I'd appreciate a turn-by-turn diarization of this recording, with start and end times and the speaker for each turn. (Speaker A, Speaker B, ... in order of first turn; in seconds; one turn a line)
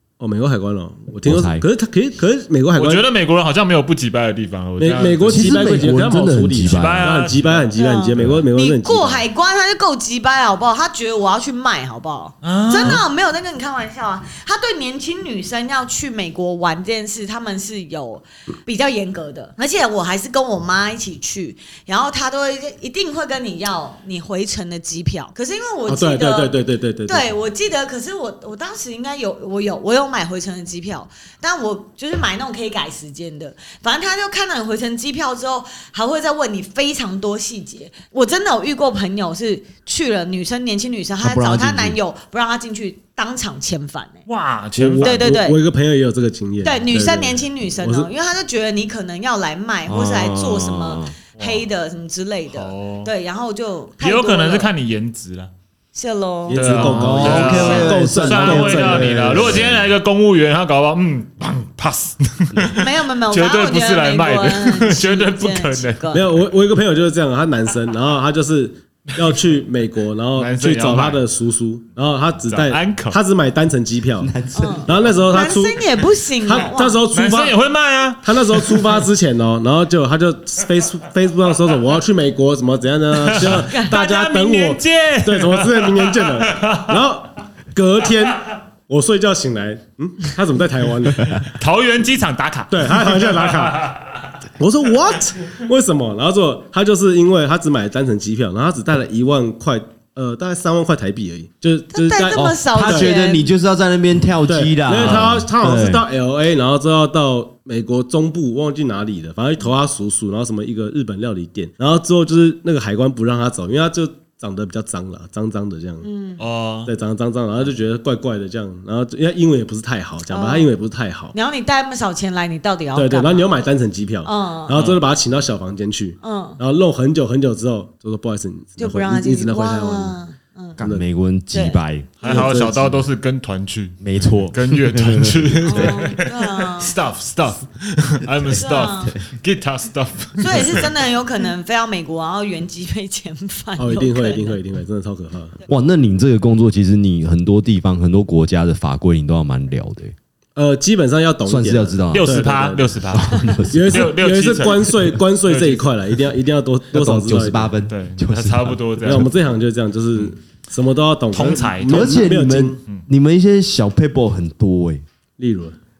Speaker A: 0.2-3.0
Speaker B: 1.2-1.7
Speaker C: 2.8-5.8
Speaker A: 4.8-9.2
Speaker B: 5.2-7.2
Speaker C: 6.6-7.8
Speaker D: 7.8-26.5
Speaker B: 8.2-8.4
Speaker C: 12.4-13.0
Speaker A: 25.9-27.3
Speaker D: 27.1-44.2
Speaker B: 41.2-42.0
Speaker C: 44.3-45.2
Speaker A: 44.8-48.1
Speaker D: 45.0-45.6
Speaker D: 46.6-54.7
Speaker B: 49.9-51.1
Speaker C: 51.4-51.6
Speaker C: 52.5-53.1
Speaker C: 54.0-55.5
Speaker D: 55.9-56.6
Speaker A: 56.5-59.9
Speaker C: 56.5-66.4
Speaker B: 56.6-59.8
Speaker D: 57.4-58.0
Speaker D: 62.8-66.3
Speaker A: 66.1-74.3
Speaker C: 70.4-71.2
Speaker C: 72.5-73.2
Speaker B: 74.2-75.0
Speaker D: 74.5-77.0
Speaker A: 74.9-75.9
Speaker C: 75.0-75.4
Speaker A: 76.5-77.5
Speaker C: 77.1-79.0
Speaker A: 78.2-91.4
Speaker C: 83.2-87.0
Speaker C: 91.3-94.2
Speaker A: 92.7-93.9
Speaker A: 94.6-103.1
Speaker D: 101.9-103.4
Speaker B: 102.3-106.0
Speaker A: 104.5-116.1
Speaker C: 104.9-105.4
Speaker D: 116.0-116.4
Speaker C: 116.4-116.9
Speaker A: 116.9-121.3
Speaker D: 120.3-120.7
Speaker D: 121.3-123.5
Speaker A: 123.0-130.2
Speaker D: 124.2-124.8
Speaker C: 124.7-125.0
Speaker D: 126.2-126.6
Speaker D: 128.8-130.8
Speaker B: 130.8-132.4
Speaker A: 130.8-131.1
Speaker D: 131.5-131.8
Speaker C: 132.2-134.0
Speaker A: 132.2-133.0
Speaker B: 134.0-136.0
Speaker C: 134.5-140.9
Speaker D: 135.7-136.9
Speaker D: 138.6-139.2
Speaker B: 138.8-139.2
Speaker D: 140.4-144.6
Speaker A: 143.8-145.6
Speaker B: 145.7-150.2
Speaker A: 150.6-153.2
Speaker B: 151.4-152.4
Speaker C: 152.1-155.9
Speaker B: 153.1-154.2
Speaker A: 153.7-157.7
Speaker B: 156.9-159.3
Speaker C: 157.9-159.3
Speaker A: 159.0-162.8
Speaker C: 161.3-162.3
Speaker B: 161.9-165.0
Speaker A: 165.4-165.8